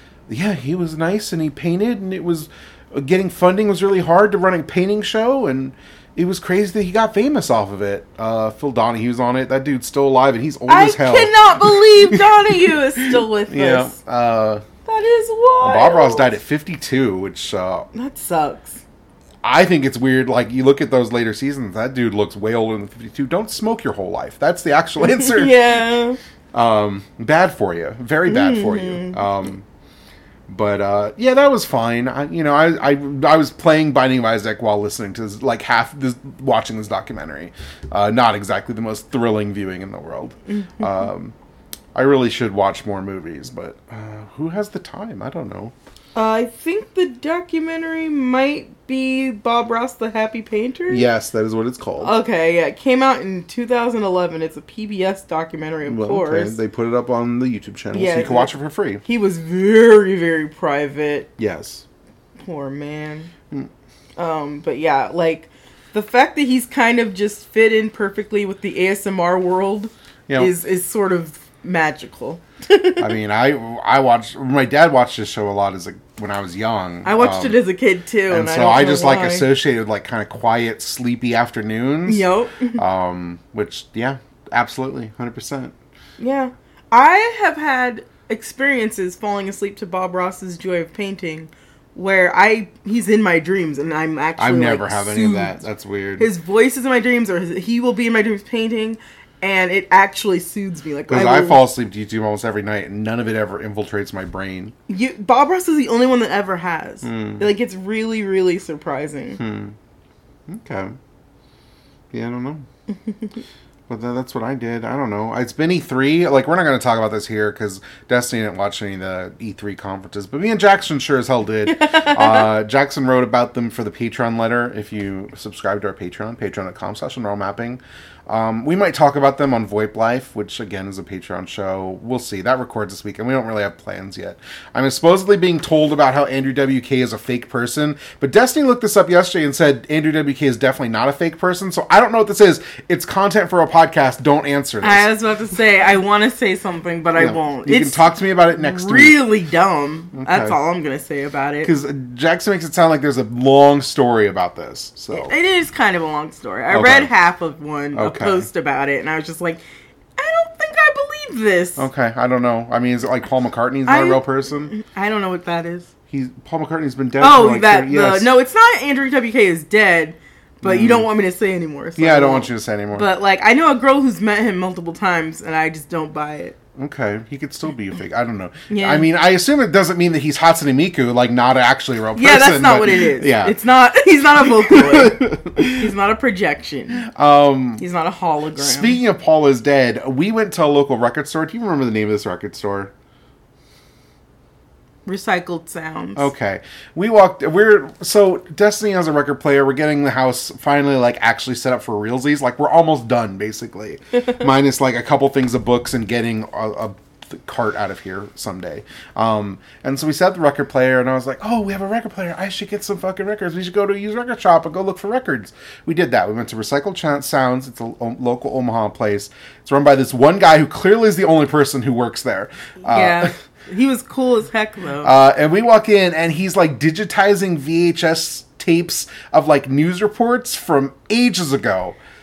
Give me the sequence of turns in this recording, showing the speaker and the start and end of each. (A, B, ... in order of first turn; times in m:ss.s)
0:00.3-0:14.6 A
0:10.7-0:14.0 B
0:14.8-0:16.3 B
0:15.6-0:17.9 A
0:17.9-0:18.8 B
0:19.4-0:25.5 A
0:25.0-0:26.2 B
0:26.5-0:29.6 A
0:28.3-0:29.2 B
0:30.5-0:41.3 A
0:40.5-0:41.0 B
0:41.9-0:45.7 A
0:46.2-0:51.1 B
0:50.9-0:52.1 A
0:52.0-0:56.6 B
0:55.9-0:59.0 A
0:57.9-1:01.3 B
1:01.4-1:01.8 A
1:02.4-1:03.3 B
1:04.2-1:13.1 B
1:10.3-1:10.5 A
1:13.0-1:17.6 A
1:17.0-1:19.5 B
1:18.3-1:25.8 A
1:22.1-1:22.8 B
1:26.2-1:35.6 B
1:34.4-1:36.3 A
1:36.2-1:41.6 B
1:41.1-1:44.8 A
1:44.9-1:49.4 B
1:47.0-1:47.5 A
1:49.4-1:49.8 A
1:50.5-1:51.0 A
1:52.1-1:52.7 A
1:53.9-2:25.1 A
2:01.7-2:02.5 B
2:24.8-2:31.7 B
2:27.2-2:29.2 A
2:30.1-2:30.6 A
2:31.6-2:35.3 A
2:35.1-2:39.6 B
2:36.7-2:37.1 A
2:37.9-2:38.5 A
2:40.2-2:41.9 B
2:41.8-2:44.7 A
2:43.9-2:45.9 B
2:46.1-2:48.3 A
2:47.2-2:56.6 B
2:50.6-2:51.1 A
2:52.0-2:53.1 A
2:56.8-3:03.6 A
2:58.7-2:59.1 B
3:02.2-3:07.1 B
3:04.4-3:05.9 A
3:07.0-3:07.8 A
3:07.8-3:09.0 B
3:08.6-3:12.9 A
3:15.1-3:16.3 B
3:16.2-3:43.3 A
3:42.9-3:45.1 B
3:45.0-3:52.0 A